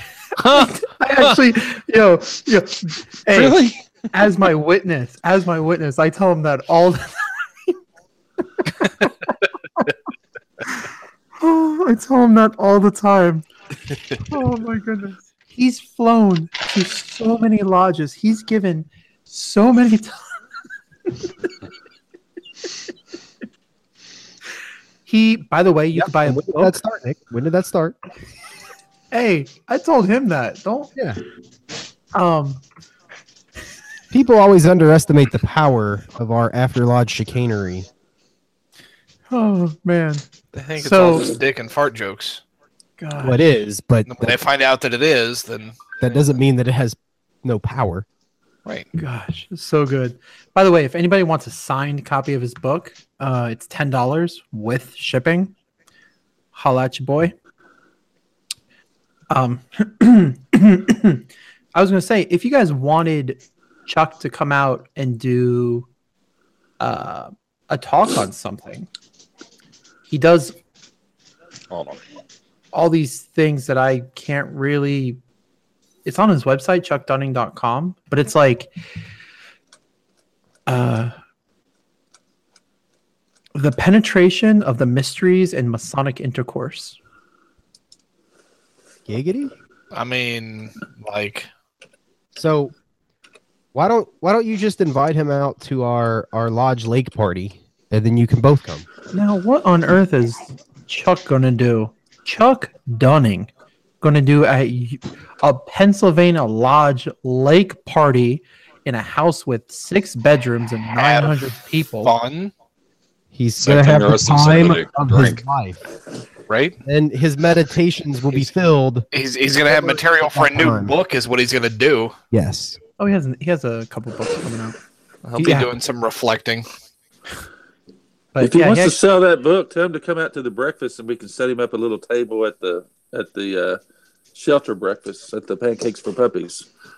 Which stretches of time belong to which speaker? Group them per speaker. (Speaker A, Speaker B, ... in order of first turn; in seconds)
Speaker A: 0.4-7.8, 8.6-9.9, 11.4-13.5, 14.2-20.3, 25.1-26.8, 29.1-30.9, 32.1-32.6, 39.3-41.3, 43.0-43.4, 49.0-55.5, 56.5-57.3, 59.3-65.9, 66.8-68.9, 70.1-70.5, 72.7-75.2, 76.0-78.7, 80.7-81.1, 83.5-87.0, 99.1-103.5, 104.0-112.1, 123.0-124.8, 125.4-125.7, 128.3-129.0
Speaker B: 0.4-1.3, 3.3-3.8, 40.5-42.4, 44.0-46.0, 89.9-91.5, 110.9-111.5, 112.0-112.5, 116.5-116.7, 119.1-122.2, 125.2-126.7
Speaker C: 25.9-28.0, 34.1-37.9, 43.2-44.4, 46.0-48.0, 89.0-89.5, 92.3-92.7, 93.7-98.9, 113.3-115.8, 116.8-121.0, 122.3-122.8
Speaker D: 71.7-72.0, 113.6-115.4
Speaker E: 128.4-133.8, 134.3-136.7